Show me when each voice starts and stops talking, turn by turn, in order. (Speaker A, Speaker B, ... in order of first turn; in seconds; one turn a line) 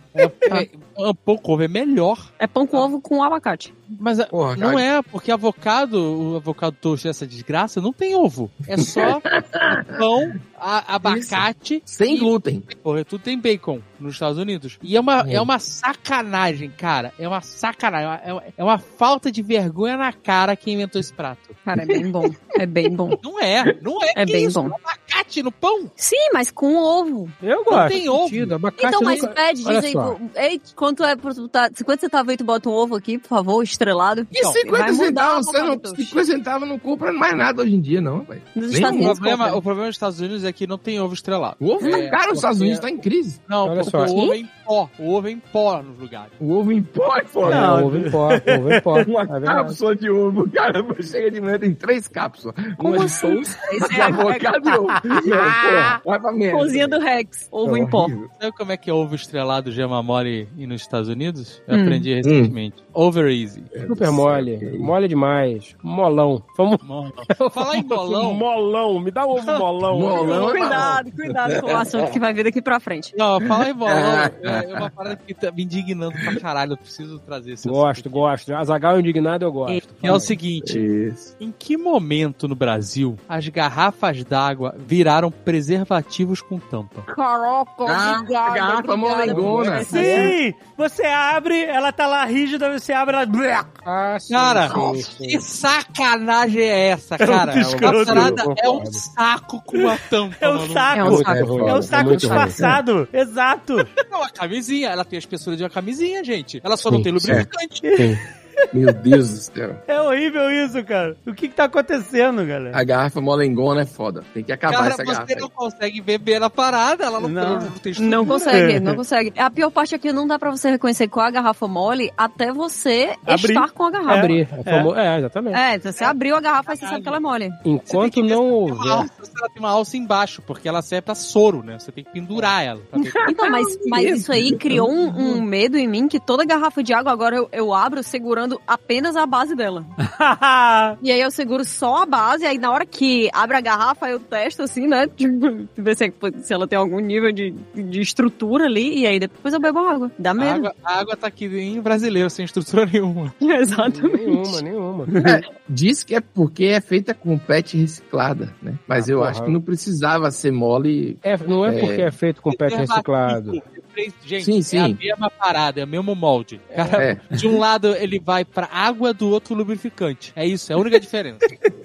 Speaker A: 0.1-2.9
Speaker B: 0.2-0.7
Speaker C: 2.4-3.7
Speaker A: 3.9-9.2
Speaker B: 4.3-4.8
Speaker B: 8.8-10.0
Speaker A: 9.9-21.6
Speaker B: 11.0-12.7
Speaker B: 15.2-15.5
Speaker C: 21.6-23.2
Speaker B: 21.8-22.1
Speaker A: 23.2-25.9
Speaker C: 24.1-24.7
Speaker C: 26.0-27.4
Speaker D: 27.4-27.9
Speaker E: 27.7-30.1
Speaker A: 27.7-28.6
Speaker C: 28.8-36.2
Speaker B: 34.3-39.2
Speaker C: 38.5-39.6
Speaker A: 38.8-42.8
Speaker B: 41.6-43.4
Speaker A: 43.5-46.3
Speaker E: 43.6-44.1
Speaker C: 44.0-44.4
Speaker B: 46.4-47.8
Speaker E: 47.4-49.8
Speaker D: 47.4-49.0
Speaker B: 49.0-57.0
Speaker C: 52.8-54.5
Speaker D: 55.0-55.9
Speaker C: 56.5-58.1
Speaker B: 57.6-58.3
Speaker A: 58.4-63.7
Speaker C: 61.7-62.1
Speaker B: 62.2-62.5
Speaker B: 63.7-64.9
Speaker E: 63.9-71.0
Speaker A: 66.8-68.4
Speaker B: 69.9-72.2
Speaker C: 70.1-73.1
Speaker A: 73.1-78.2
Speaker B: 73.5-74.8
Speaker E: 77.6-80.3
Speaker A: 80.0-80.9
Speaker B: 80.0-81.3
Speaker A: 81.4-87.1
Speaker C: 87.1-90.3
Speaker B: 87.8-90.2
Speaker E: 89.2-90.3
Speaker D: 89.9-93.8
Speaker E: 93.8-95.5
Speaker A: 94.3-101.2
Speaker B: 94.7-95.0
Speaker D: 97.2-98.4
Speaker E: 97.5-99.0
Speaker D: 99.7-103.9
Speaker C: 100.9-101.5
Speaker E: 101.0-102.6
Speaker B: 101.2-102.8
Speaker A: 103.9-107.9
Speaker E: 106.8-108.2
Speaker D: 107.8-108.1
Speaker B: 108.7-109.8
Speaker D: 109.9-112.8
Speaker B: 112.7-115.5
Speaker A: 114.7-118.6
Speaker D: 117.2-117.7
Speaker C: 118.0-124.3
Speaker D: 118.5-119.0
Speaker D: 123.3-124.9
Speaker E: 124.1-125.6
Speaker C: 125.5-127.6
Speaker A: 126.0-127.2
Speaker E: 127.6-129.1
Speaker A: 127.9-133.3
Speaker B: 132.9-135.4
Speaker C: 133.2-139.9
Speaker D: 140.0-141.0
Speaker C: 141.0-150.7
Speaker A: 150.4-153.3
Speaker C: 153.4-154.6
Speaker E: 153.8-155.1
Speaker B: 155.2-162.1
Speaker E: 158.9-159.6
Speaker E: 161.2-163.6
Speaker A: 162.5-171.4
Speaker B: 164.4-165.0
Speaker B: 166.9-167.3